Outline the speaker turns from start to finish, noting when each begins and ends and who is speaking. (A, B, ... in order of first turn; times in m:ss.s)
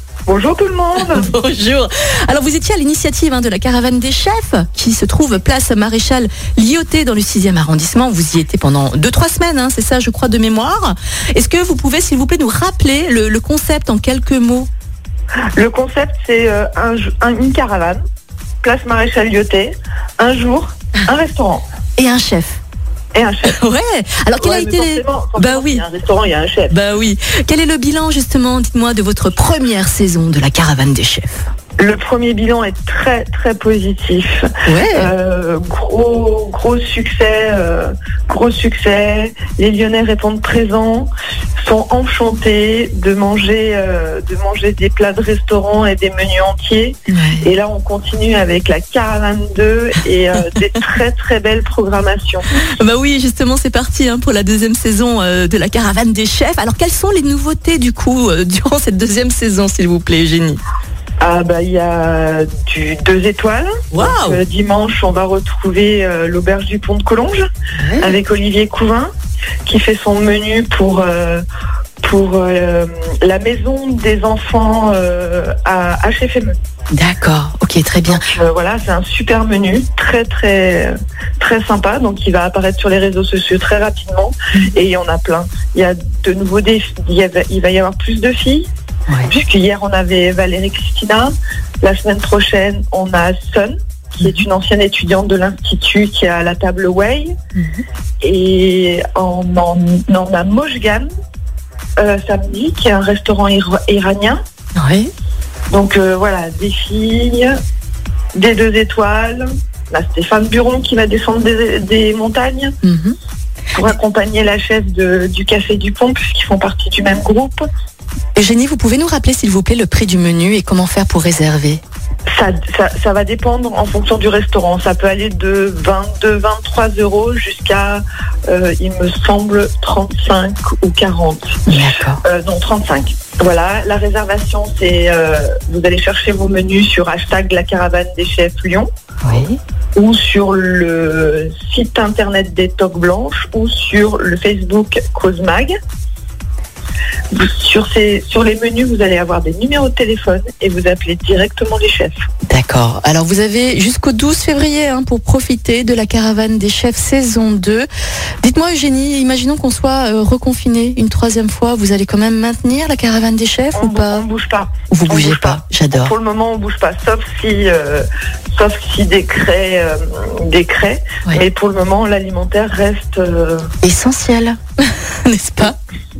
0:00.3-0:01.3 A
0:01.0-0:14.7 B
0:15.6-0:18.0 A
0:18.6-0:21.6 A
0:22.0-0:22.6 B
0:23.1-0:23.6 A
0:23.4-0:25.8 B
0:24.4-0:26.8 A
0:26.7-0:31.5 B
0:31.8-0:52.5 A
0:34.6-0:35.1 B
0:47.1-0:47.5 B
0:52.6-1:00.6 B
1:01.2-1:07.5 A
1:03.9-1:04.4 B
1:07.8-1:08.2 B
1:08.0-1:09.1 A
1:09.7-1:11.4 A
1:12.0-1:16.5 A
1:16.9-1:18.3 B
1:18.1-1:28.7 A
1:29.3-1:37.4 A
1:38.2-1:41.1 A
1:42.0-1:44.4 A
1:44.8-1:45.1 B
1:45.7-1:47.5 A
1:48.4-1:52.8 A
1:52.8-1:53.2 B
1:53.8-1:57.6 A
1:58.4-2:01.8 B
2:02.3-2:18.9 A
2:11.7-2:12.2 B
2:19.2-2:19.6 B
2:20.0-2:25.7 A
2:27.3-2:32.2 A
2:32.5-2:37.9 B
2:38.4-2:44.2 B
2:43.7-2:53.7 A
2:44.9-2:46.1 B
2:53.8-2:54.6 B
2:55.2-2:55.8 B